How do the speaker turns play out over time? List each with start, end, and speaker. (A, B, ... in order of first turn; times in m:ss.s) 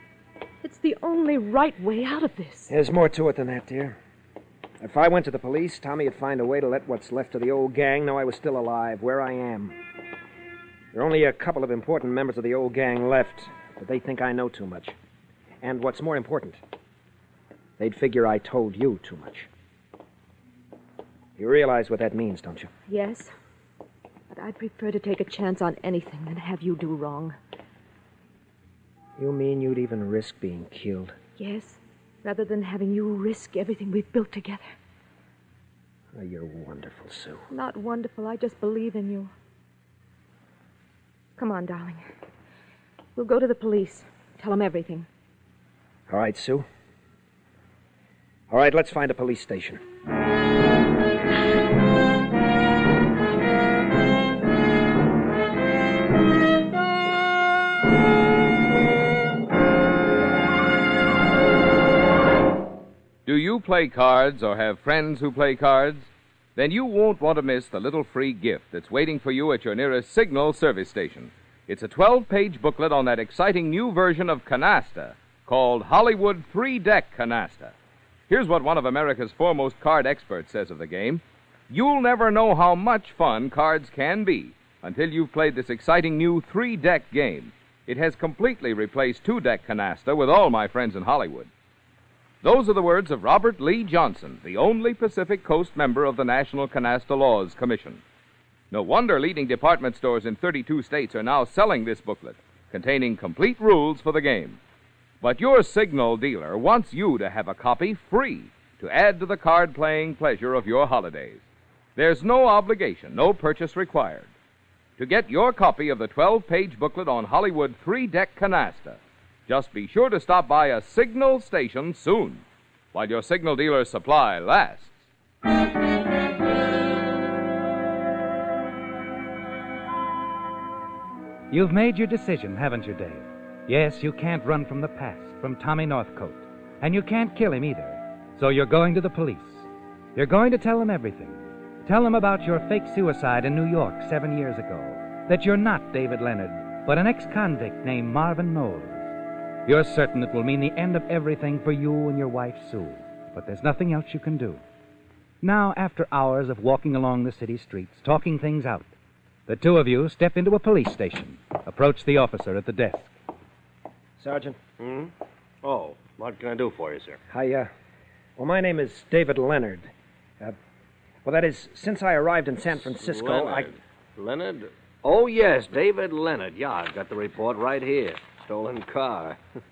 0:00.6-0:02.7 A
0:02.7-0:04.0 B
0:04.8-0:09.8 B
0:10.9-0:15.0 B
0:15.6-0:16.6 B
0:17.8-0:19.5 B
0:21.4-0:22.7 B
0:22.9-0:23.3 A
0:24.3-0:27.4 A
0:29.2-0:31.2 B
0:31.4-0:34.7 A
0:36.1-0:37.4 B
0:37.5-0:39.3 A
0:41.4-0:42.0 A
0:43.2-0:45.1 A
0:46.1-0:46.7 B
0:48.5-0:49.8 B
1:03.3-1:17.7 C
1:18.3-1:31.5 C
1:32.4-1:38.0 C
1:38.7-1:44.6 C
1:45.2-1:51.4 C
1:52.0-1:54.3 C
1:55.0-2:05.0 C
2:11.5-2:29.1 D
2:29.7-2:34.6 D
2:35.4-2:38.9 D
2:39.5-2:43.1 D
2:44.2-2:44.6 B
2:44.8-2:45.1 E
2:45.6-2:47.2 E
2:47.3-2:47.7 B
2:48.4-2:50.6 B
2:51.2-2:53.7 B
2:52.8-2:59.4 E